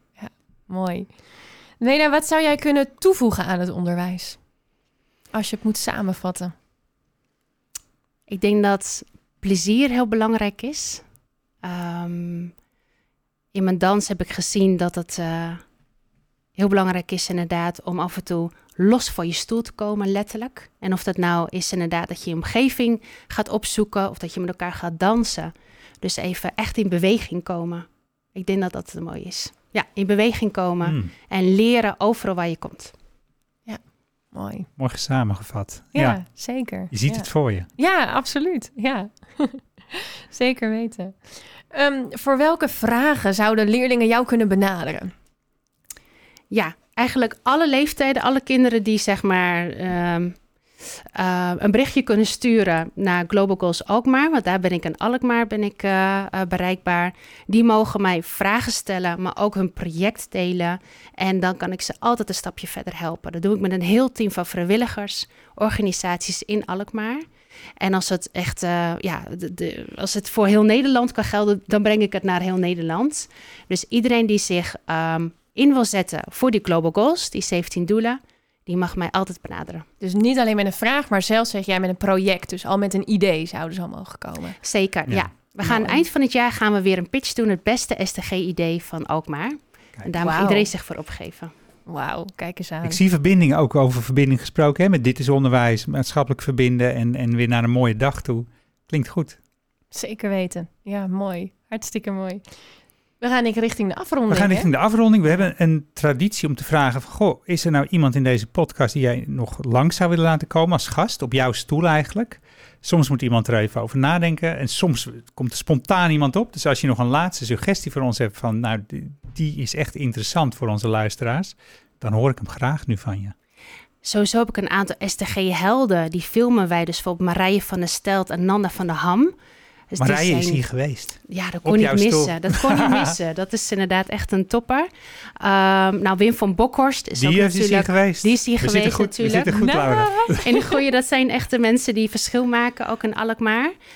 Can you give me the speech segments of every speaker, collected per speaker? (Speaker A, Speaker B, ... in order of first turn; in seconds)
Speaker A: 0.2-1.1, 1.8-4.4, 5.3-6.5, 34.3-34.7, 35.9-45.1, 80.0-84.6, 90.2-90.7, 91.9-93.0, 99.9-102.5, 103.2-104.7, 139.5-140.8
Speaker B: 8.3-11.0, 11.6-12.5, 13.5-15.6, 16.6-32.9, 46.5-67.3, 67.8-79.9, 84.6-91.5, 124.0-129.3, 129.9-130.6, 131.3-134.9, 135.4-143.7
Speaker C: 30.8-31.1, 34.8-36.2, 36.9-37.7, 92.8-99.4, 104.3-123.3, 130.0-133.2, 137.2-140.4